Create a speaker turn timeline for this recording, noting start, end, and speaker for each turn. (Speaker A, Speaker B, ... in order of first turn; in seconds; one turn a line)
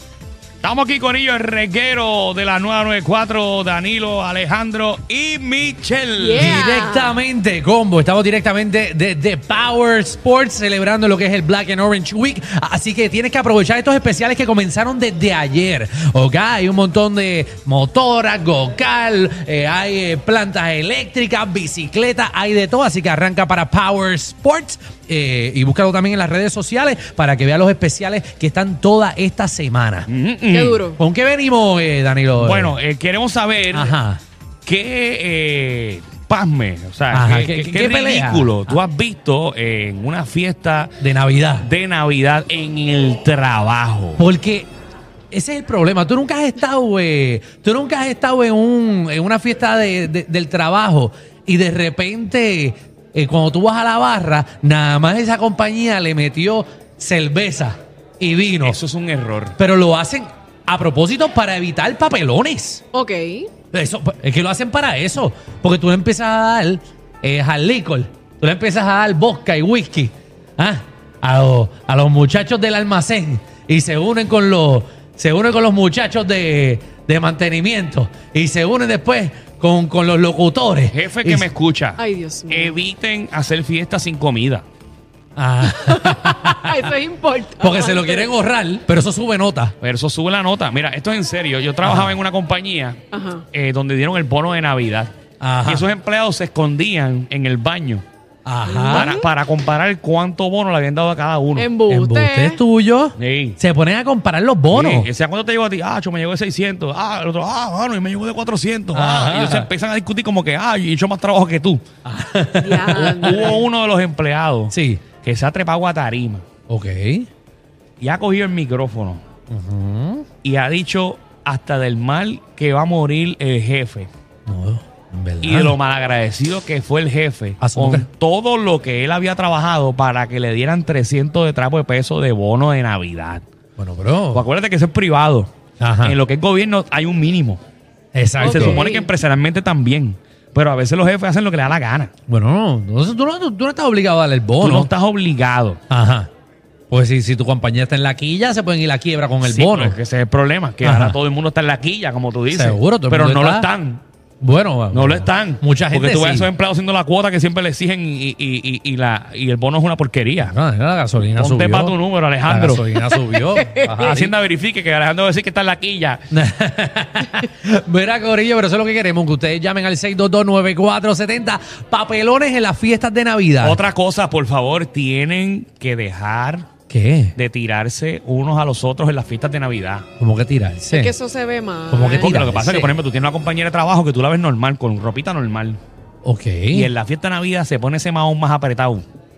Speaker A: 0.6-6.5
Speaker B: 6.2-7.2
Speaker C: 6.4-30.1
Speaker A: 30.1-30.9
Speaker B: 30.5-31.0
Speaker C: 31.0-32.8
Speaker A: 32.4-34.0
Speaker C: 33.7-34.2
Speaker A: 34.6-40.9
Speaker C: 37.1-38.8
Speaker C: 41.0-41.7
Speaker A: 41.6-44.2
Speaker C: 44.2-44.7
Speaker C: 45.3-58.8
Speaker A: 58.6-59.6
Speaker C: 59.6-62.8
Speaker B: 62.9-63.5
Speaker C: 63.7-81.5
Speaker A: 80.9-84.7
Speaker B: 82.0-82.8
Speaker C: 85.4-86.9
Speaker B: 85.7-88.3
Speaker C: 87.6-89.7
Speaker A: 89.8-93.0
Speaker C: 91.8-92.2
Speaker B: 93.1-93.5
Speaker A: 93.5-95.1
Speaker C: 95.4-95.9
Speaker A: 95.7-98.0
Speaker C: 98.5-99.1
Speaker B: 98.7-99.3
Speaker A: 98.8-101.7
Speaker B: 101.5-102.6
Speaker C: 101.9-105.1
Speaker A: 103.2-103.6
Speaker A: 104.7-111.8
Speaker C: 108.9-109.7
Speaker C: 112.0-113.6
Speaker B: 112.6-113.6
Speaker A: 113.0-116.5
Speaker C: 114.7-115.0
Speaker C: 116.7-117.3
Speaker A: 118.0-119.2
Speaker C: 119.5-120.3
Speaker A: 120.4-124.1
Speaker C: 124.5-125.8
Speaker A: 125.4-133.4
Speaker C: 127.6-128.1
Speaker C: 133.8-134.4
Speaker A: 134.3-135.5
Speaker C: 135.8-136.2
Speaker A: 136.0-137.6
Speaker C: 138.2-138.8
Speaker B: 138.4-139.1
Speaker A: 138.4-142.1
Speaker C: 142.3-144.9
Speaker A: 144.6-145.8
Speaker C: 145.9-146.3
Speaker C: 146.9-150.0
Speaker A: 149.4-154.0
Speaker C: 150.8-151.2
Speaker C: 152.5-153.7
Speaker C: 154.4-156.5
Speaker A: 154.9-160.5
Speaker C: 160.4-164.3
Speaker A: 161.3-162.8
Speaker B: 163.6-164.0
Speaker A: 164.0-166.2
Speaker C: 166.3-173.8
Speaker A: 173.6-176.7
Speaker C: 176.9-177.3
Speaker A: 177.4-180.1
Speaker C: 180.2-181.1
Speaker B: 180.9-182.5
Speaker C: 181.9-182.9
Speaker A: 182.1-185.8
Speaker C: 186.2-186.9
Speaker A: 186.7-189.0